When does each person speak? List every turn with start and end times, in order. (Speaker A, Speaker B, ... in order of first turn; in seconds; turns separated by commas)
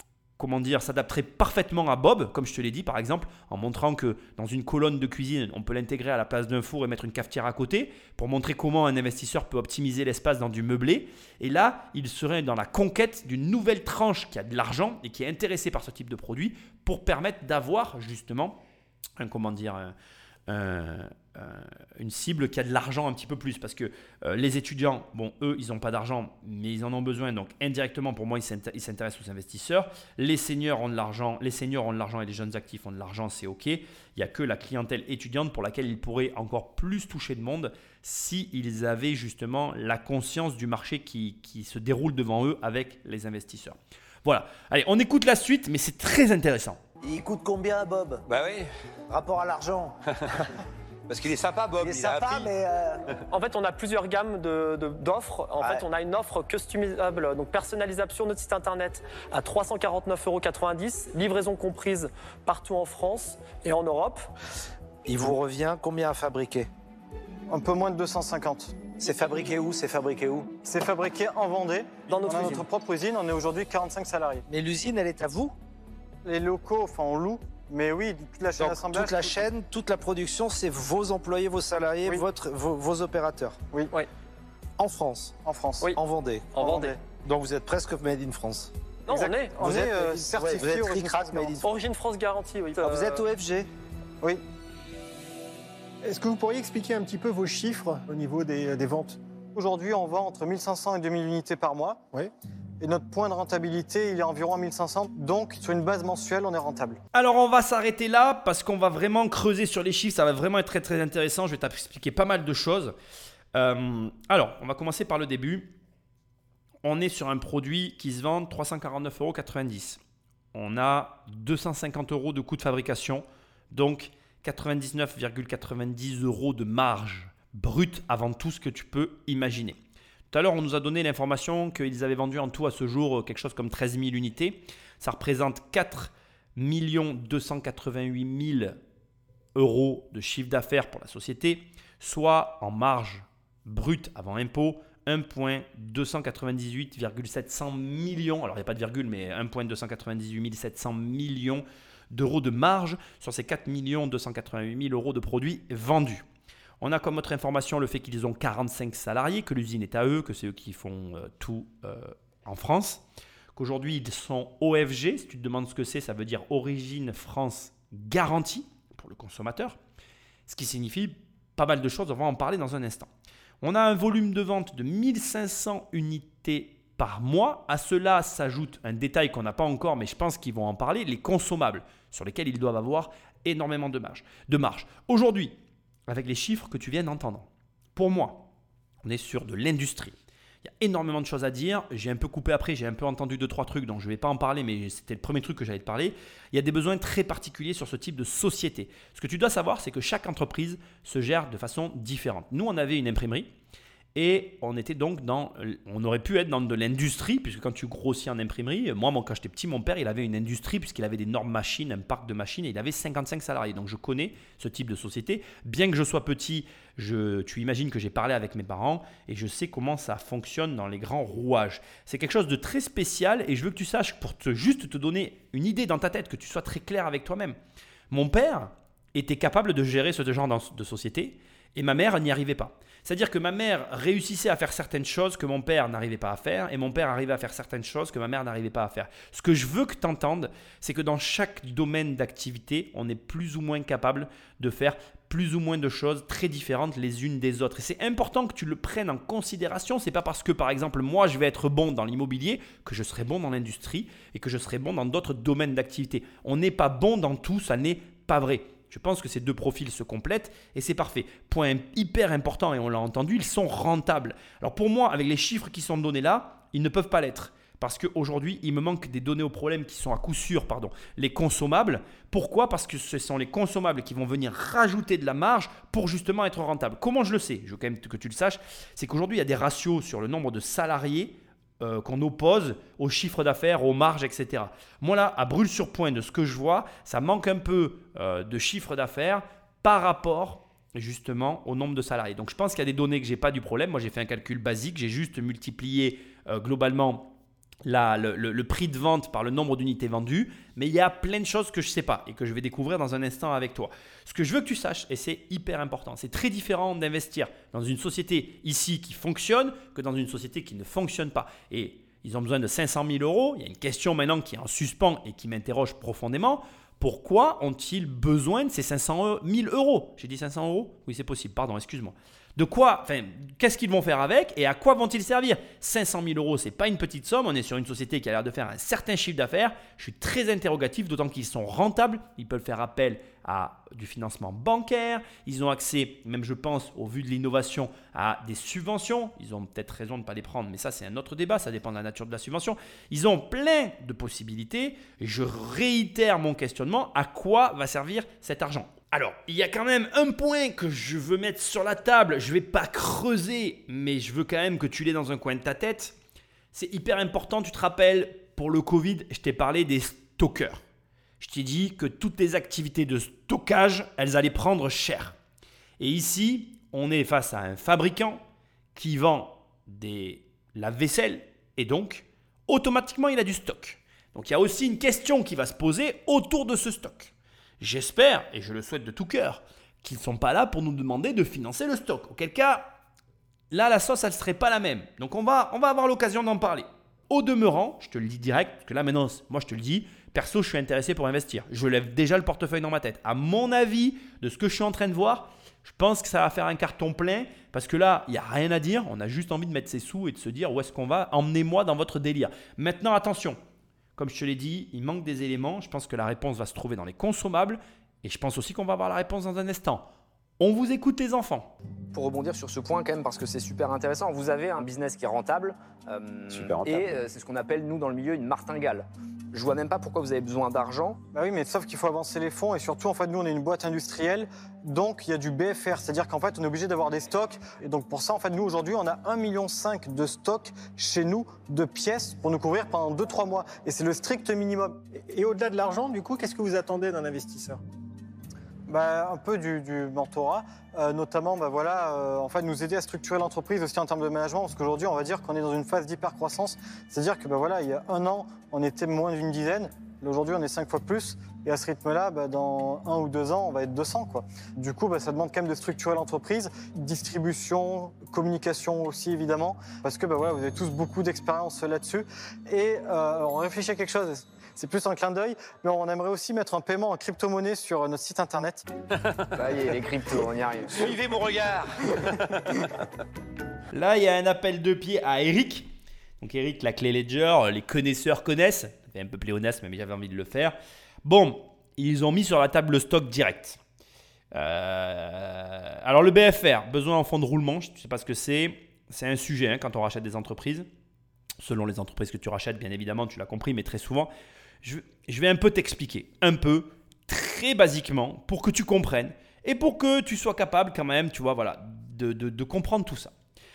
Speaker A: 0.4-18.6, Speaker A: 19.2-19.9, Speaker A: 20.5-46.8, Speaker B: 47.0-48.2, Speaker C: 48.3-48.7, Speaker B: 49.1-50.0, Speaker C: 51.1-52.5, Speaker B: 51.8-53.0, Speaker D: 53.3-64.2, Speaker B: 65.1-66.7, Speaker E: 67.5-68.8, Speaker B: 69.0-70.5, Speaker E: 70.6-74.5, Speaker D: 72.1-72.6, Speaker B: 74.5-75.5, Speaker E: 76.2-79.5, Speaker B: 78.6-83.6, Speaker B: 84.8-85.4, Speaker E: 85.5-85.9, Speaker B: 86.0-88.7, Speaker D: 86.6-86.8, Speaker E: 86.6-87.0, Speaker D: 89.1-89.6, Speaker E: 89.1-91.6, Speaker B: 89.6-91.7, Speaker D: 91.6-93.2, Speaker B: 92.8-93.7, Speaker F: 96.0-99.2, Speaker E: 99.5-102.0, Speaker E: 102.8-107.0, Speaker A: 107.1-112.9, Speaker A: 113.5-115.7, Speaker A: 116.8-120.0, Speaker A: 120.5-129.8, Speaker A: 130.3-138.8, Speaker A: 139.6-156.2, Speaker A: 156.8-163.0, Speaker A: 163.6-169.8, Speaker A: 170.5-173.1, Speaker A: 173.6-185.6, Speaker A: 186.1-188.5, Speaker A: 189.0-203.5, Speaker A: 204.2-227.6, Speaker A: 228.1-297.3, Speaker A: 297.9-356.1, Speaker A: 356.7-360.8, Speaker A: 361.4-365.4, Speaker A: 366.0-368.4, Speaker A: 368.9-382.9, Speaker A: 383.7-403.6, Speaker A: 404.2-410.1, Speaker A: 410.6-411.7, Speaker G: 412.1-421.2, Speaker B: 416.5-417.2, Speaker E: 421.3-435.0, Speaker F: 435.3-437.8, Speaker E: 438.9-468.9, Speaker G: 469.6-471.1, Speaker C: 470.9-472.7, Speaker A: 473.9-475.9, Speaker A: 476.4-483.8, Speaker A: 484.5-490.9, Speaker A: 491.6-494.3, Speaker A: 494.8-503.3